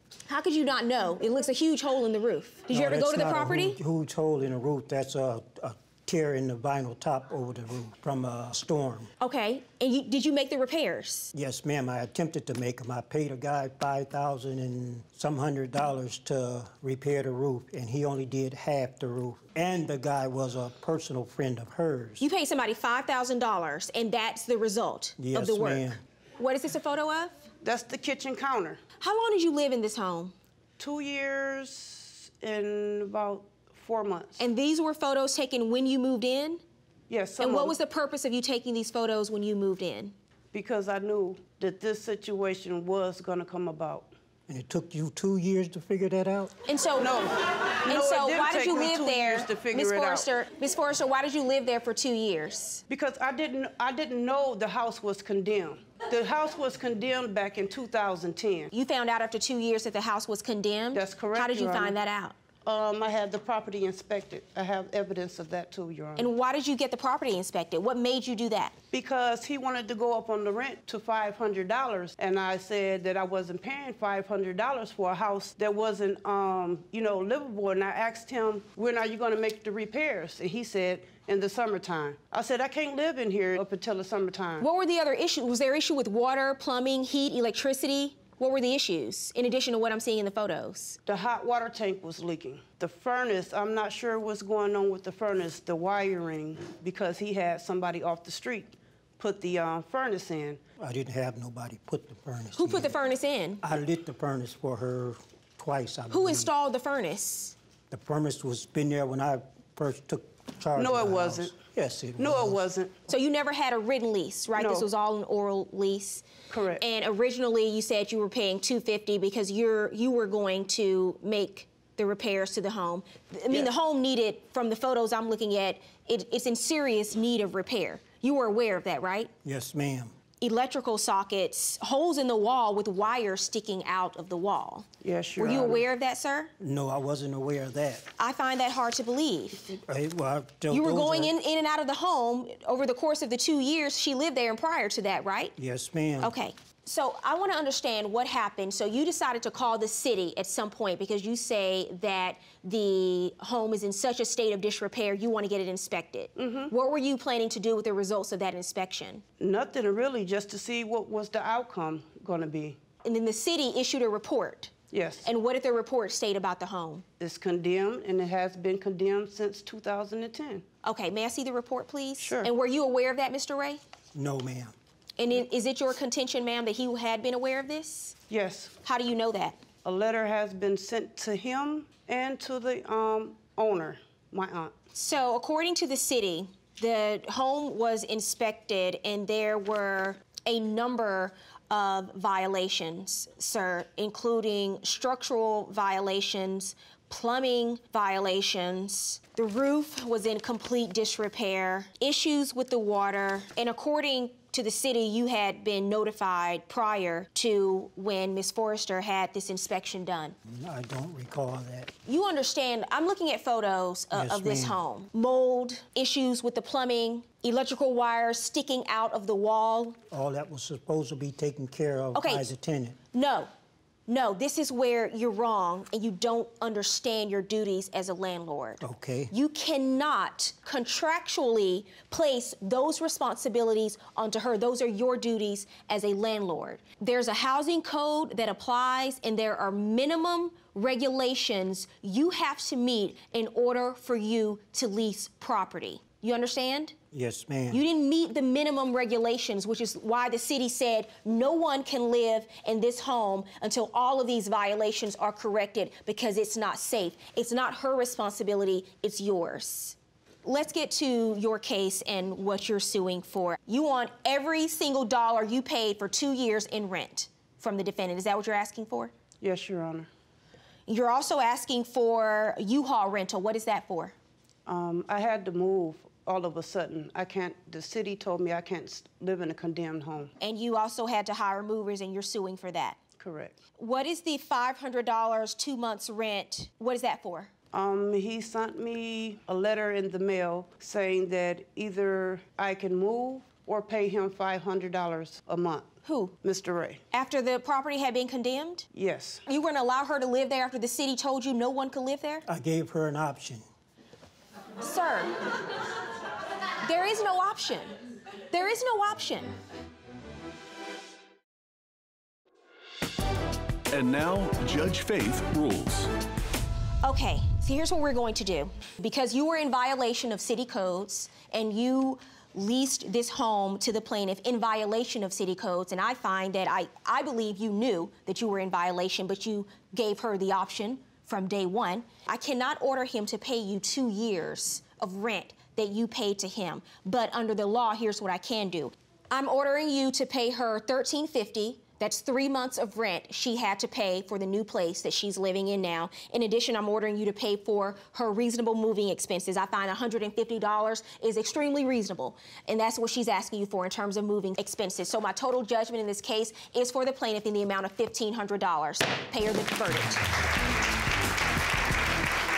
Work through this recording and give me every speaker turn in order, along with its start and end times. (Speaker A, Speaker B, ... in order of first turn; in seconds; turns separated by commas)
Speaker A: 0.3-3.8, Speaker B: 2.7-9.1, Speaker A: 9.2-11.3, Speaker B: 11.3-22.2, Speaker A: 22.2-27.4, Speaker B: 25.2-26.0, Speaker C: 27.6-28.8, Speaker A: 29.0-30.3, Speaker C: 30.8-34.4, Speaker A: 34.4-36.6, Speaker C: 37.1-37.7, Speaker A: 37.4-40.1, Speaker C: 40.5-44.1, Speaker B: 44.5-46.5, Speaker A: 46.6-47.1, Speaker C: 47.0-50.2, Speaker A: 47.8-52.8, Speaker C: 52.9-58.7, Speaker A: 58.7-62.4, Speaker C: 60.9-61.9, Speaker C: 62.6-66.2, Speaker A: 66.2-68.7, Speaker C: 68.9-84.7, Speaker A: 84.6-91.0, Speaker C: 91.1-100.6, Speaker B: 100.8-103.0, Speaker A: 102.6-103.6, Speaker B: 103.6-106.5, Speaker A: 106.1-107.5, Speaker B: 107.9-112.6, Speaker C: 110.8-111.5, Speaker C: 112.2-112.9, Speaker A: 113.1-116.2, Speaker C: 114.6-114.8, Speaker C: 116.5-116.8, Speaker A: 116.8-129.3, Speaker B: 129.4-130.1, Speaker A: 130.4-134.9, Speaker C: 135.0-135.8, Speaker A: 135.4-136.5, Speaker B: 136.6-138.1, Speaker A: 138.2-139.8, Speaker B: 139.7-141.3, Speaker A: 140.7-145.5, Speaker B: 145.6-146.3, Speaker A: 146.2-159.2, Speaker C: 156.4-156.7, Speaker C: 159.4-162.8, Speaker A: 163.0-164.7, Speaker C: 164.9-165.2, Speaker A: 165.2-167.0, Speaker C: 167.2-170.6, Speaker A: 170.8-173.8, Speaker C: 172.2-172.5, Speaker B: 174.1-174.7, Speaker A: 175.2-178.2, Speaker C: 178.3-178.7, Speaker A: 178.8-179.6, Speaker C: 179.8-184.7, Speaker A: 184.9-210.3, Speaker B: 210.5-211.9, Speaker A: 212.0-220.0, Speaker B: 214.1-214.8, Speaker B: 220.1-223.0, Speaker A: 222.1-222.5, Speaker A: 223.1-223.5, Speaker A: 224.1-246.9, Speaker B: 228.8-229.3, Speaker B: 247.1-247.8, Speaker A: 247.7-269.1, Speaker C: 269.4-270.1, Speaker A: 270.9-274.1, Speaker C: 274.6-280.3, Speaker A: 280.4-283.0, Speaker C: 283.2-283.6, Speaker A: 283.8-287.5, Speaker C: 287.7-295.9, Speaker A: 296.0-296.4, Speaker C: 296.4-297.0, Speaker A: 297.1-298.9, Speaker C: 298.9-299.4, Speaker A: 299.5-302.4, Speaker B: 302.5-303.6, Speaker A: 304.8-305.3, Speaker A: 306.8-308.0, Speaker A: 308.5-309.5, Speaker D: 313.9-316.1, Speaker A: 317.0-360.2